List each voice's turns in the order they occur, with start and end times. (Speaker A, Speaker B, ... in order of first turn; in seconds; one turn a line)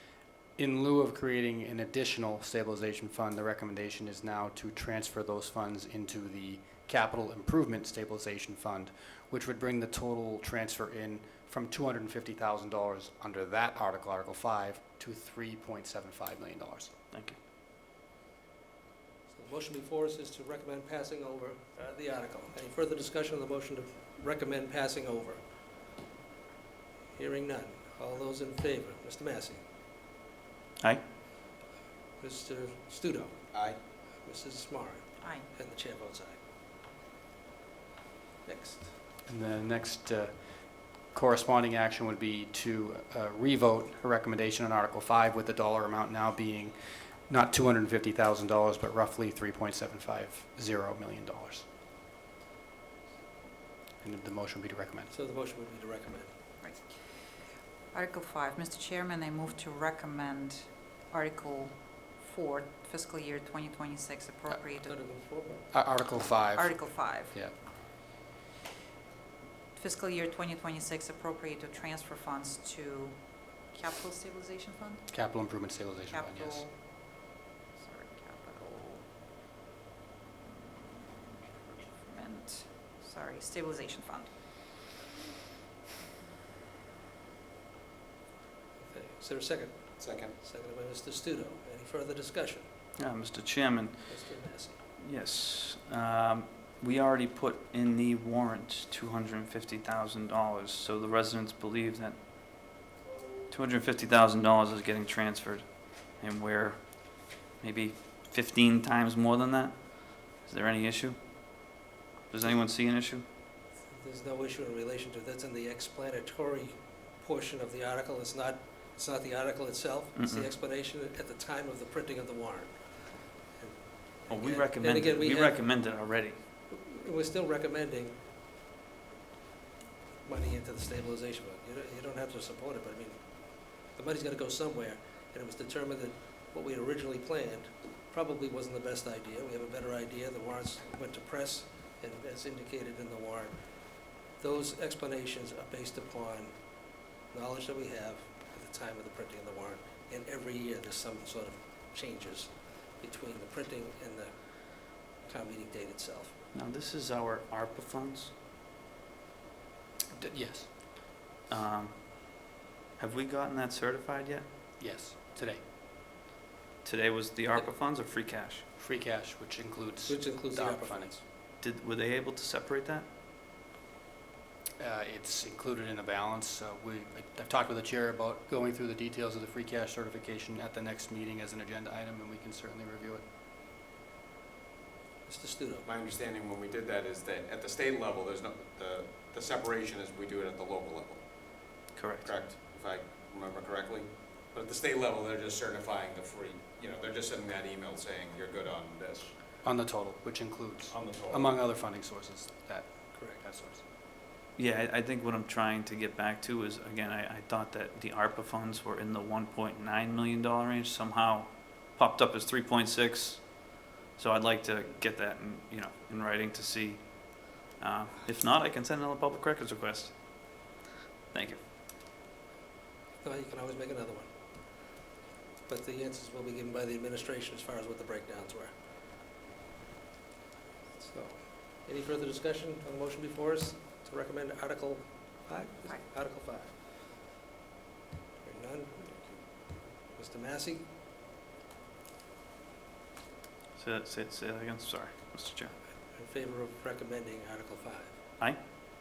Speaker A: 0.6-16.9
Speaker B: 17.1-17.4
Speaker C: 19.3-25.4
Speaker C: 27.2-29.6
Speaker C: 32.2-33.5
Speaker D: 33.5-33.8
Speaker C: 34.0-36.4
Speaker E: 35.2-35.5
Speaker C: 38.4-38.9
Speaker A: 39.2-51.7
Speaker A: 54.0-55.1
Speaker C: 55.1-56.3
Speaker E: 56.6-57.0
Speaker E: 57.9-64.9
Speaker C: 64.8-65.7
Speaker A: 65.7-67.5
Speaker E: 66.5-67.4
Speaker E: 69.8-75.1
Speaker A: 75.1-76.6
Speaker E: 76.1-77.2
Speaker E: 77.8-79.0
Speaker E: 80.5-84.5
Speaker C: 88.8-92.7
Speaker D: 90.0-90.3
Speaker B: 93.0-94.3
Speaker C: 94.1-94.7
Speaker B: 95.0-102.2
Speaker B: 103.5-113.2
Speaker C: 113.9-125.7
Speaker B: 120.2-120.5
Speaker B: 124.3-126.4
Speaker C: 126.7-128.2
Speaker C: 130.2-156.3
Speaker B: 156.5-158.3
Speaker A: 160.2-160.7
Speaker B: 161.5-164.5
Speaker A: 164.8-165.6
Speaker B: 166.8-168.6
Speaker A: 168.8-171.2
Speaker C: 170.1-171.2
Speaker B: 171.6-173.1
Speaker A: 174.8-183.2
Speaker C: 185.3-185.9
Speaker D: 185.9-191.6
Speaker B: 191.9-192.3
Speaker D: 192.2-199.3
Speaker A: 199.6-203.8
Speaker D: 200.9-201.5
Speaker C: 203.1-203.4
Speaker B: 204.6-220.7
Speaker B: 221.3-221.6
Speaker C: 223.2-224.9
Speaker C: 225.7-228.8
Speaker C: 231.0-236.8
Speaker C: 238.4-240.9
Speaker B: 243.8-245.8
Speaker C: 246.1-248.2